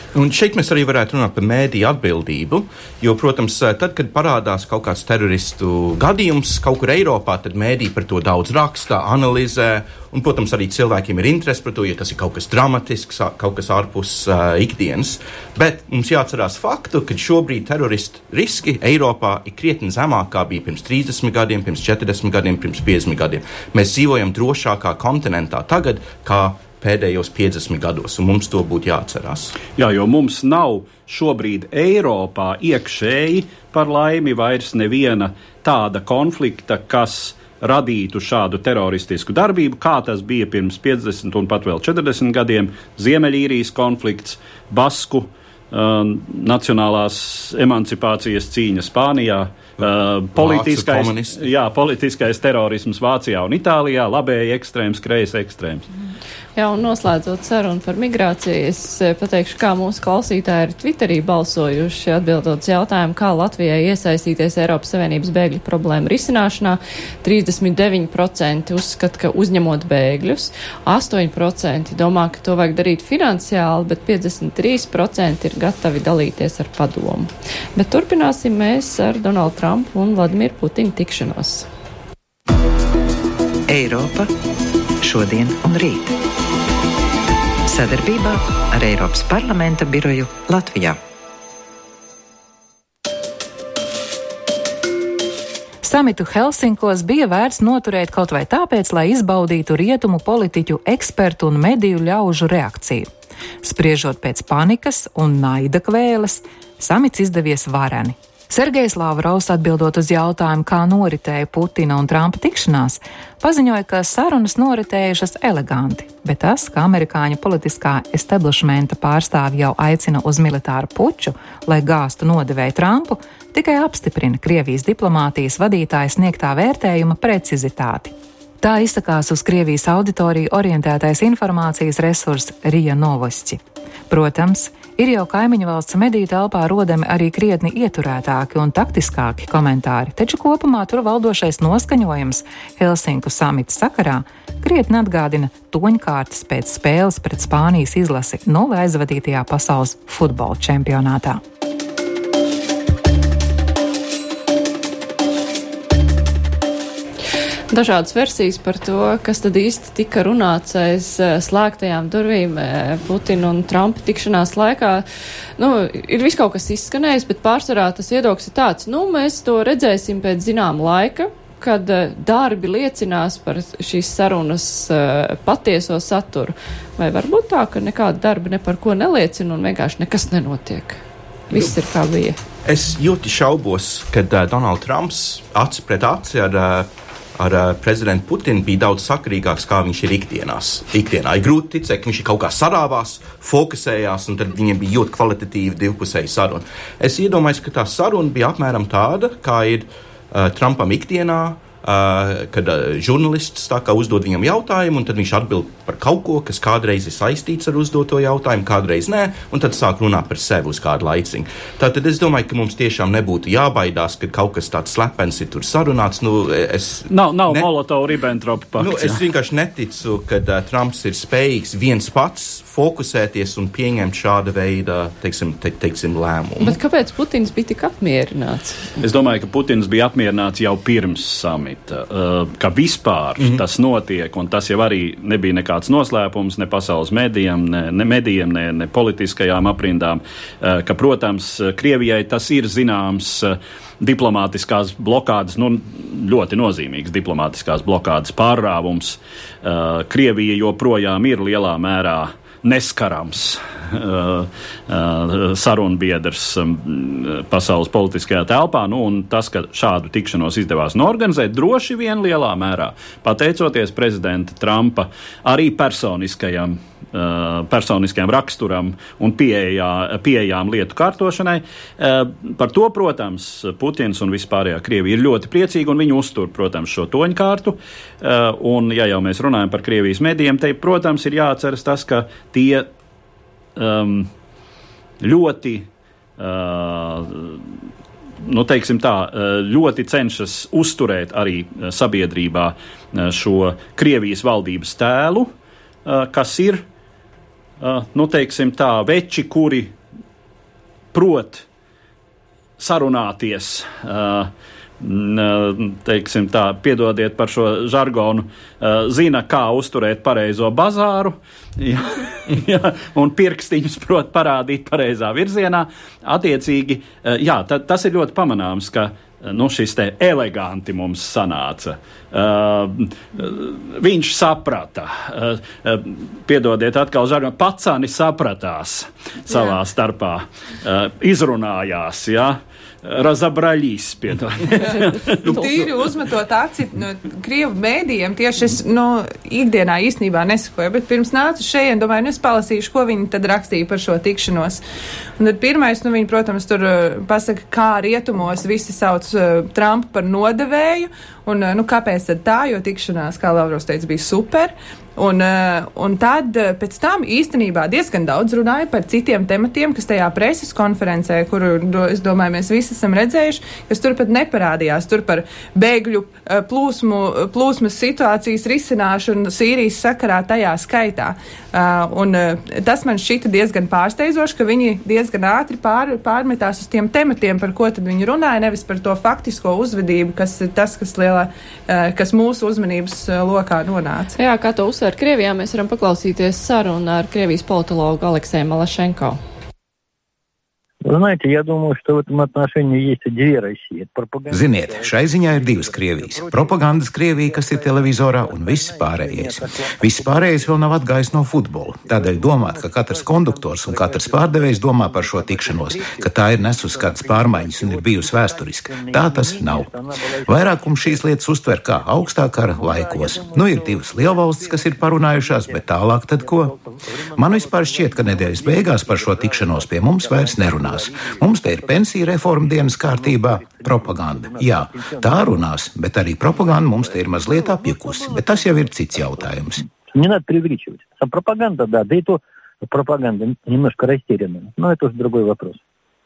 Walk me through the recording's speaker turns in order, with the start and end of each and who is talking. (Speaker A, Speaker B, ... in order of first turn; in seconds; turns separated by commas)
Speaker A: 0.1-29.6, Speaker B: 29.8-55.9, Speaker A: 49.8-51.5, Speaker C: 56.6-81.7, Speaker D: 83.7-84.3, Speaker D: 85.0-86.2, Speaker D: 87.7-91.0, Speaker E: 95.8-103.1, Speaker E: 103.6-151.4, Speaker C: 157.7-165.1, Speaker C: 165.6-182.4, Speaker A: 182.7-217.7, Speaker B: 217.1-219.2, Speaker A: 218.8-226.8, Speaker C: 226.6-228.8, Speaker B: 229.0-282.9, Speaker B: 283.8-284.3, Speaker B: 285.2-287.6, Speaker B: 288.4-295.5, Speaker B: 296.1-296.8, Speaker B: 297.8-299.9, Speaker B: 301.1-301.6, Speaker B: 302.8-335.9, Speaker F: 335.4-344.8, Speaker F: 345.4-384.4, Speaker C: 384.4-389.4, Speaker G: 391.1-411.3, Speaker H: 394.5-409.9, Speaker H: 410.5-416.7, Speaker G: 412.0-425.7, Speaker H: 417.4-429.9, Speaker G: 426.4-435.8